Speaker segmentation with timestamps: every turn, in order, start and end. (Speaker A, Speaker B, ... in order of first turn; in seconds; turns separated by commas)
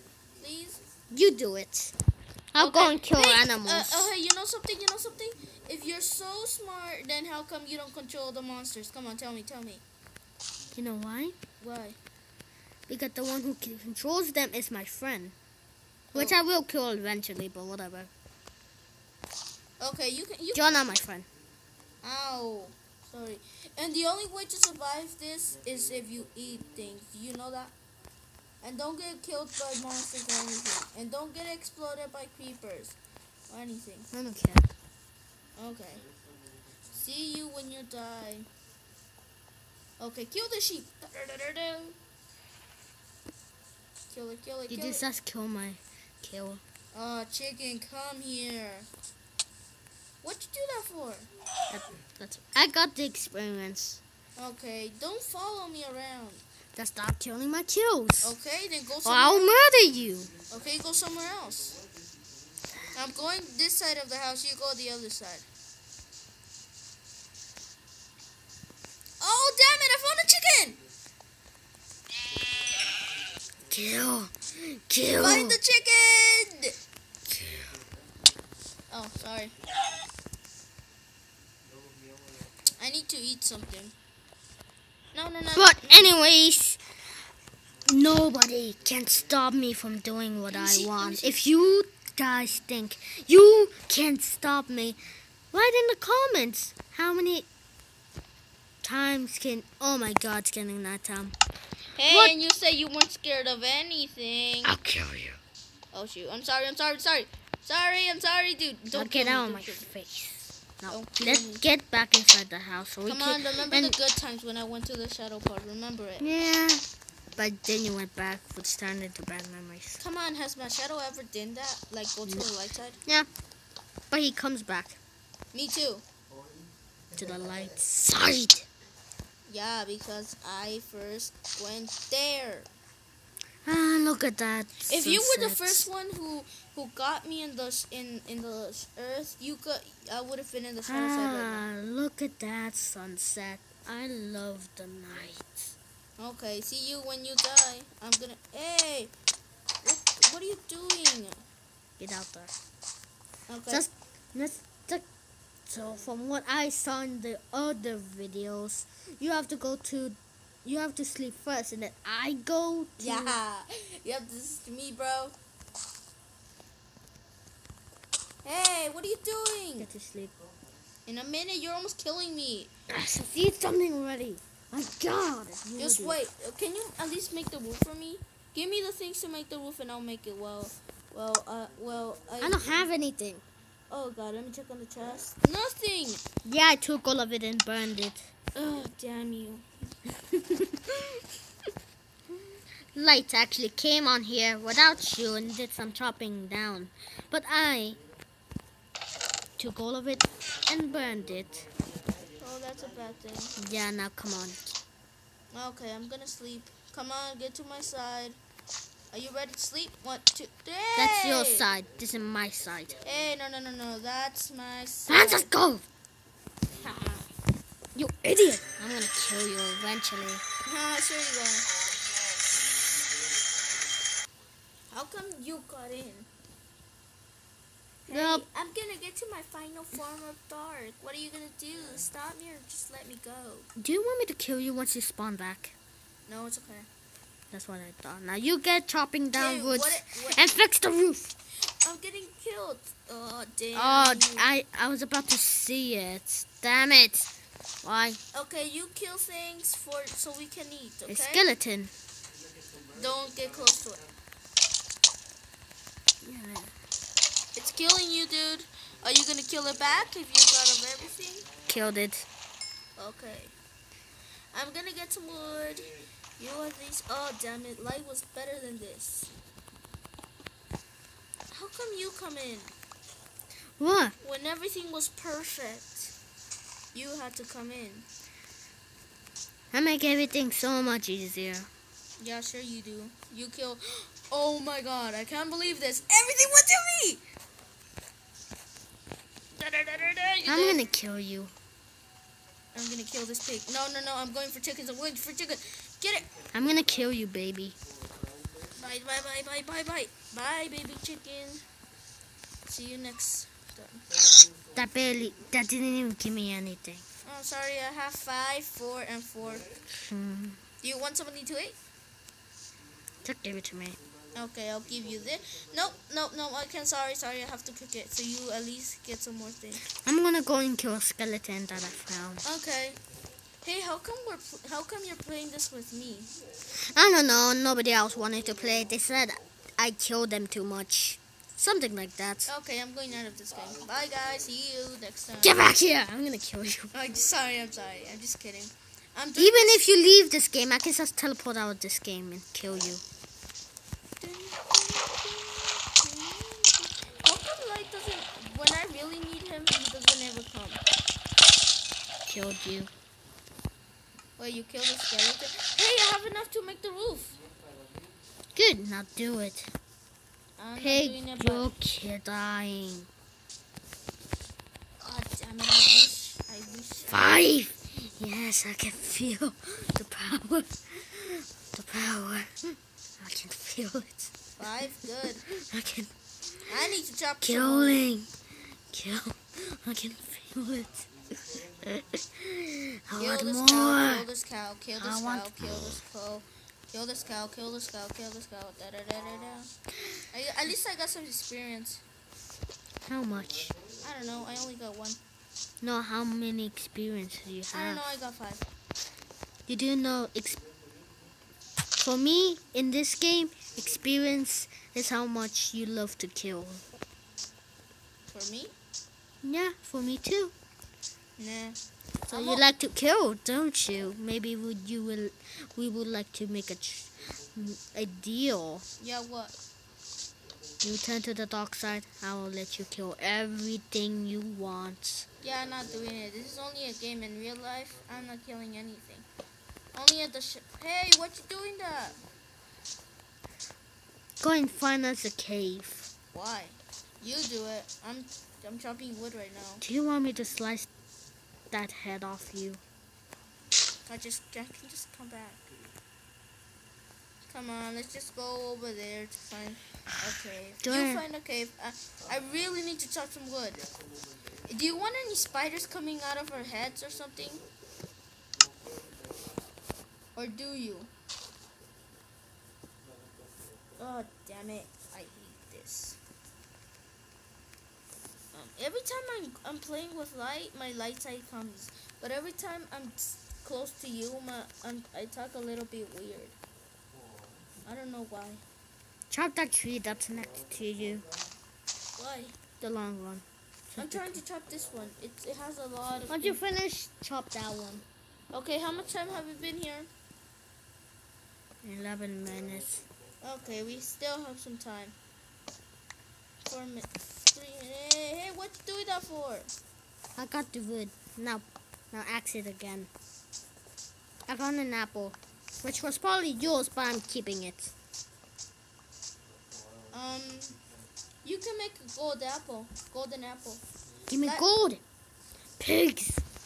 Speaker A: 0.4-0.8, Speaker B: 1.1-2.0, Speaker B: 2.5-4.1, Speaker A: 2.6-9.8, Speaker B: 10.7-11.4, Speaker A: 11.6-12.0, Speaker B: 12.9-15.3, Speaker B: 16.1-18.1, Speaker A: 19.8-20.8, Speaker B: 20.6-21.3, Speaker A: 22.0-27.7, Speaker A: 28.6-33.0, Speaker A: 33.5-34.1, Speaker B: 34.1-34.6, Speaker A: 35.6-36.1, Speaker A: 36.9-38.5, Speaker A: 40.0-42.0, Speaker A: 44.1-45.0, Speaker B: 44.7-46.6, Speaker A: 46.9-48.9, Speaker A: 50.2-51.3, Speaker B: 51.7-54.0, Speaker A: 54.4-56.4, Speaker B: 56.8-58.3, Speaker A: 58.2-59.5, Speaker B: 59.0-60.3, Speaker A: 60.5-61.8, Speaker A: 62.9-65.5, Speaker A: 69.2-70.8, Speaker B: 73.7-75.6, Speaker A: 75.1-76.8, Speaker B: 77.3-77.6, Speaker A: 78.9-79.5, Speaker A: 82.8-84.0, Speaker A: 85.1-86.1, Speaker B: 85.5-86.8, Speaker B: 87.8-95.0, Speaker A: 90.5-91.4, Speaker B: 95.5-97.5, Speaker B: 98.8-101.3, Speaker A: 101.9-104.8, Speaker B: 102.1-102.4, Speaker B: 104.8-105.3, Speaker A: 105.9-109.8, Speaker B: 108.9-114.0, Speaker A: 110.9-111.6, Speaker A: 113.0-116.3, Speaker B: 116.2-116.8, Speaker B: 117.4-120.0, Speaker A: 120.0-123.0, Speaker B: 124.1-125.0, Speaker A: 125.5-126.0, Speaker B: 127.2-128.7, Speaker A: 129.5-132.7, Speaker B: 133.7-135.9, Speaker A: 134.9-141.7, Speaker B: 140.9-145.8, Speaker A: 146.2-149.1, Speaker A: 149.8-151.4, Speaker B: 152.0-152.6, Speaker A: 153.5-153.8, Speaker B: 153.7-155.0, Speaker B: 155.7-163.4, Speaker A: 163.0-165.3, Speaker A: 168.4-169.9, Speaker B: 169.8-170.3, Speaker A: 171.1-172.7, Speaker B: 172.9-176.2, Speaker A: 175.8-182.8, Speaker B: 182.4-183.4, Speaker A: 183.9-186.2, Speaker B: 186.4-188.3, Speaker A: 188.6-189.7, Speaker B: 192.9-198.0, Speaker B: 199.6-201.7, Speaker A: 202.4-203.6, Speaker B: 203.6-204.6, Speaker A: 205.5-208.4, Speaker A: 209.1-211.7, Speaker B: 211.0-213.0, Speaker A: 213.0-215.5, Speaker B: 215.1-215.8, Speaker A: 216.7-217.3, Speaker B: 217.9-220.4, Speaker A: 220.6-221.7, Speaker A: 224.9-226.3, Speaker A: 228.1-233.7, Speaker B: 228.1-228.4, Speaker B: 233.8-235.7, Speaker A: 236.3-236.9, Speaker B: 237.5-241.3, Speaker A: 239.4-240.6, Speaker A: 241.8-244.5, Speaker B: 243.8-247.3, Speaker B: 247.8-248.2, Speaker A: 248.3-251.4, Speaker B: 251.1-251.9, Speaker A: 252.9-254.1, Speaker B: 256.2-256.7, Speaker A: 257.6-261.5, Speaker B: 261.7-262.3, Speaker A: 263.0-263.5, Speaker A: 264.5-269.3, Speaker A: 271.5-272.7, Speaker B: 273.8-274.2, Speaker A: 274.2-276.1, Speaker A: 276.9-278.1, Speaker B: 279.7-281.7, Speaker A: 282.2-287.2, Speaker A: 289.6-290.8, Speaker B: 290.5-291.5, Speaker A: 292.7-296.3, Speaker B: 296.5-297.8, Speaker A: 298.7-301.6, Speaker A: 302.7-304.1, Speaker B: 304.8-307.0, Speaker A: 307.2-309.7, Speaker B: 309.9-310.6, Speaker A: 310.8-311.8, Speaker B: 313.2-314.0, Speaker A: 314.3-319.8, Speaker B: 320.0-322.4, Speaker A: 322.4-323.0, Speaker A: 323.6-326.3, Speaker B: 326.8-332.5, Speaker A: 332.5-335.6, Speaker B: 335.4-336.9, Speaker A: 336.9-339.8, Speaker B: 339.4-343.0, Speaker A: 344.2-350.8, Speaker B: 352.3-352.9, Speaker A: 354.4-357.4, Speaker B: 358.6-359.7, Speaker A: 360.6-361.7, Speaker B: 360.8-363.1, Speaker A: 365.0-367.3, Speaker B: 367.1-374.3, Speaker A: 374.6-375.4, Speaker B: 375.5-376.1, Speaker A: 376.7-378.1, Speaker B: 377.4-378.3, Speaker B: 378.9-384.3, Speaker A: 383.1-389.7, Speaker B: 385.0-385.9, Speaker A: 390.3-392.0, Speaker B: 393.1-393.8, Speaker A: 394.0-395.2, Speaker B: 395.8-398.0, Speaker A: 397.7-398.6, Speaker B: 399.7-400.6, Speaker B: 402.0-406.8, Speaker A: 408.3-408.8, Speaker B: 409.4-410.5, Speaker A: 411.4-411.8, Speaker B: 412.3-418.9, Speaker A: 412.3-412.6, Speaker A: 419.0-419.6, Speaker B: 420.8-425.3, Speaker A: 425.4-429.3, Speaker A: 429.9-432.2, Speaker B: 434.4-436.1, Speaker A: 436.3-439.8, Speaker B: 439.8-440.9, Speaker B: 441.7-442.8, Speaker A: 444.1-445.7, Speaker A: 447.5-453.9, Speaker B: 450.8-451.2, Speaker A: 454.7-457.6, Speaker A: 460.4-461.1, Speaker A: 464.0-466.2, Speaker A: 468.5-476.6, Speaker A: 477.9-478.6, Speaker B: 479.3-481.3, Speaker A: 482.2-482.6, Speaker B: 482.8-484.4, Speaker A: 484.0-486.6, Speaker B: 486.3-488.1, Speaker A: 488.5-490.1, Speaker B: 491.8-493.1, Speaker A: 493.4-495.2, Speaker A: 496.6-499.7, Speaker B: 500.4-503.1, Speaker B: 504.5-507.9, Speaker A: 510.1-510.8, Speaker A: 511.4-513.8, Speaker B: 514.3-515.0, Speaker B: 515.8-516.5